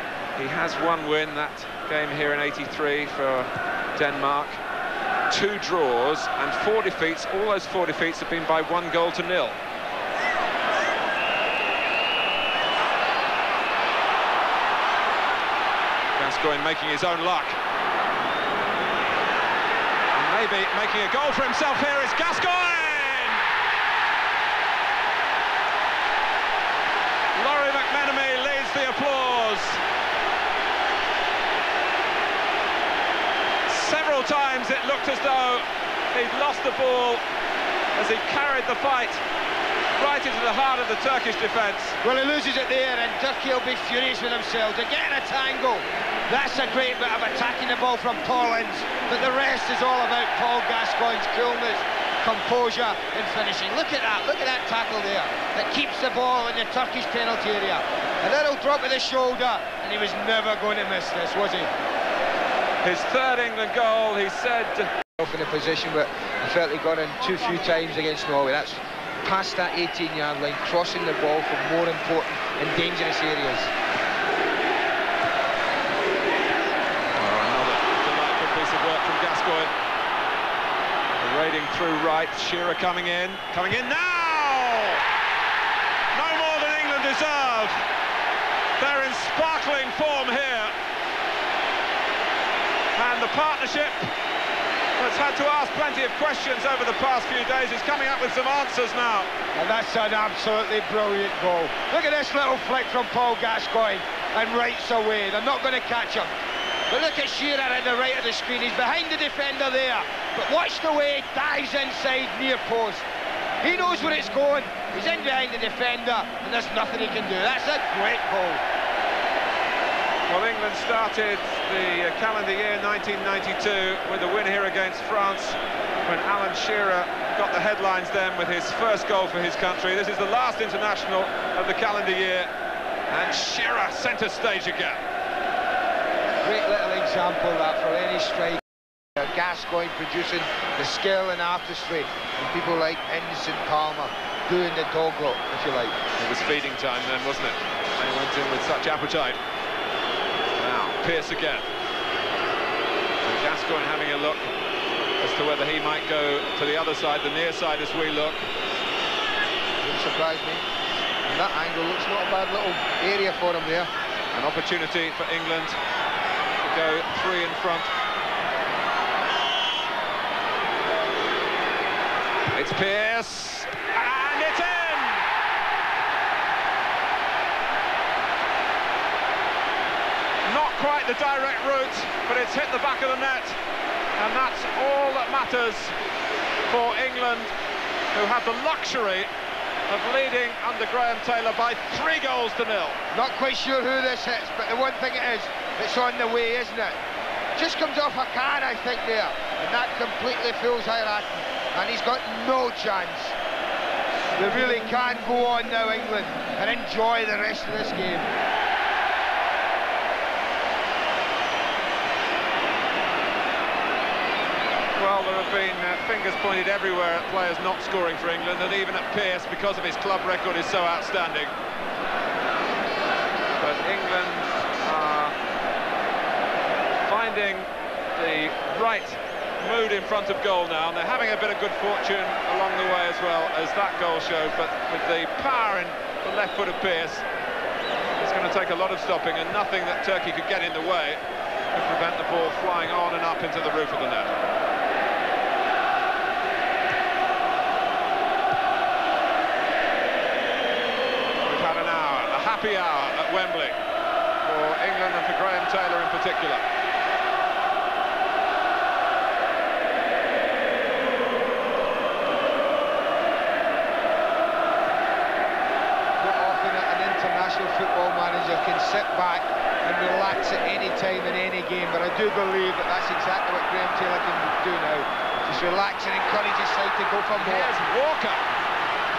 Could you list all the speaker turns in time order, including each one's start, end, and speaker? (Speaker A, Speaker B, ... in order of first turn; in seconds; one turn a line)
Speaker A: 0.3-4.6
Speaker A: 5.3-9.6
Speaker A: 16.1-17.6
Speaker A: 20.1-23.4
Speaker A: 27.3-29.8
Speaker A: 33.7-37.2
Speaker A: 37.9-39.2
Speaker A: 40.0-42.0
Speaker B: 42.0-61.7
Speaker A: 62.8-64.9
Speaker B: 65.2-73.7
Speaker A: 77.1-79.7
Speaker A: 81.1-85.0
Speaker A: 86.1-87.8
Speaker A: 88.8-90.7
Speaker A: 92.9-94.1
Speaker A: 95.0-99.3
Speaker B: 99.5-106.3
Speaker B: 106.9-113.0
Speaker B: 113.6-118.6
Speaker A: 120.3-132.5
Speaker A: 133.1-135.0
Speaker B: 136.4-138.6
Speaker B: 139.2-145.9
Speaker A: 146.2-149.4
Speaker A: 150.6-151.7
Speaker A: 153.2-154.5
Speaker A: 155.2-158.4
Speaker B: 159.8-160.6
Speaker B: 161.3-163.9
Speaker A: 164.3-165.8
Speaker A: 166.6-167.9
Speaker A: 172.5-175.3
Speaker A: 180.4-183.6
Speaker A: 184.2-185.9
Speaker A: 186.7-187.5
Speaker A: 188.1-189.3
Speaker A: 189.9-193.0
Speaker B: 193.1-197.0
Speaker B: 197.6-203.3
Speaker B: 204.3-208.3
Speaker A: 215.0-221.5
Speaker A: 223.6-225.3
Speaker A: 227.0-237.2
Speaker A: 238.2-241.2
Speaker A: 241.7-244.3
Speaker A: 251.4-253.8
Speaker A: 254.4-256.6
Speaker B: 266.2-277.8
Speaker A: 277.3-278.4